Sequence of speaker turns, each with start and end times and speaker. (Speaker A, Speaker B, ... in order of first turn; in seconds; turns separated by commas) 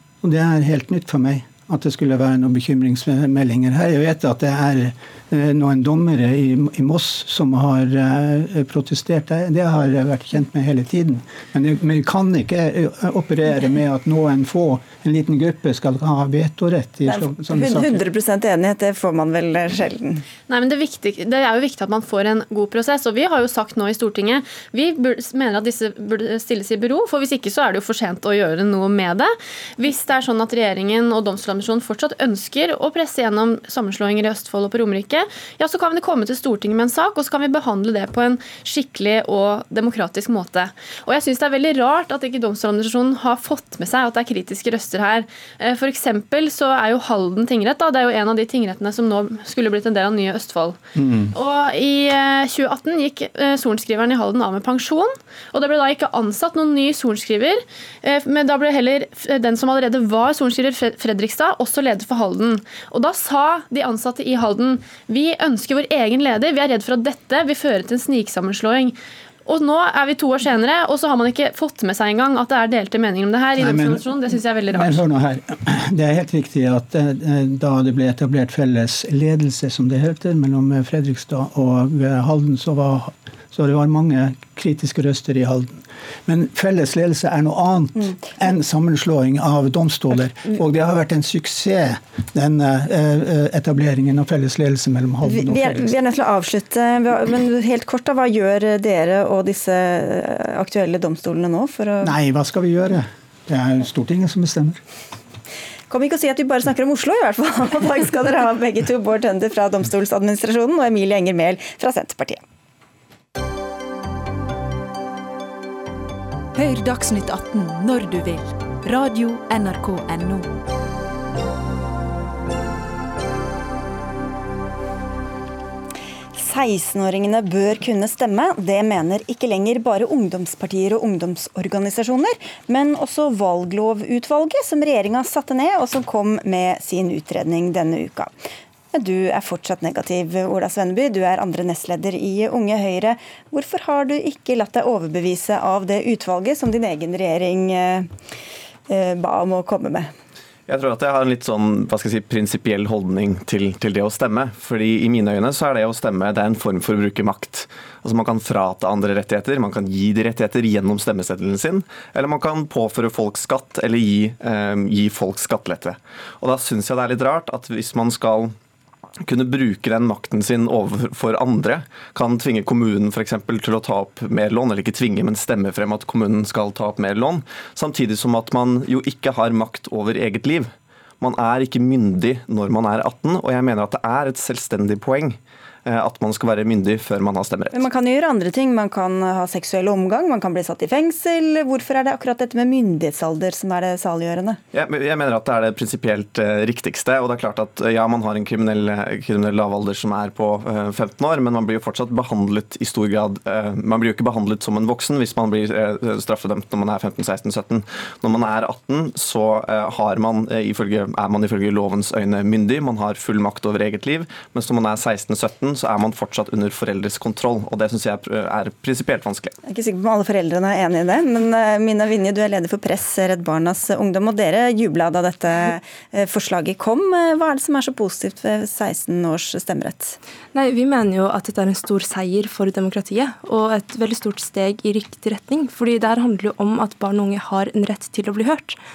Speaker A: 0.2-18.0, Speaker B: 17.1-20.2, Speaker C: 20.5-68.9, Speaker A: 51.0-51.3, Speaker C: 69.5-75.0, Speaker A: 73.6-95.9, Speaker B: 95.3-102.1, Speaker A: 102.0-104.8, Speaker B: 105.9-112.4, Speaker D: 116.5-120.5, Speaker B: 126.3-138.3, Speaker B: 138.9-148.1, Speaker B: 148.9-150.1, Speaker E: 150.7-168.5, Speaker E: 169.2-187.8, Speaker B: 187.7-194.6, Speaker E: 194.7-219.6, Speaker B: 219.7-230.2, Speaker F: 230.5-238.8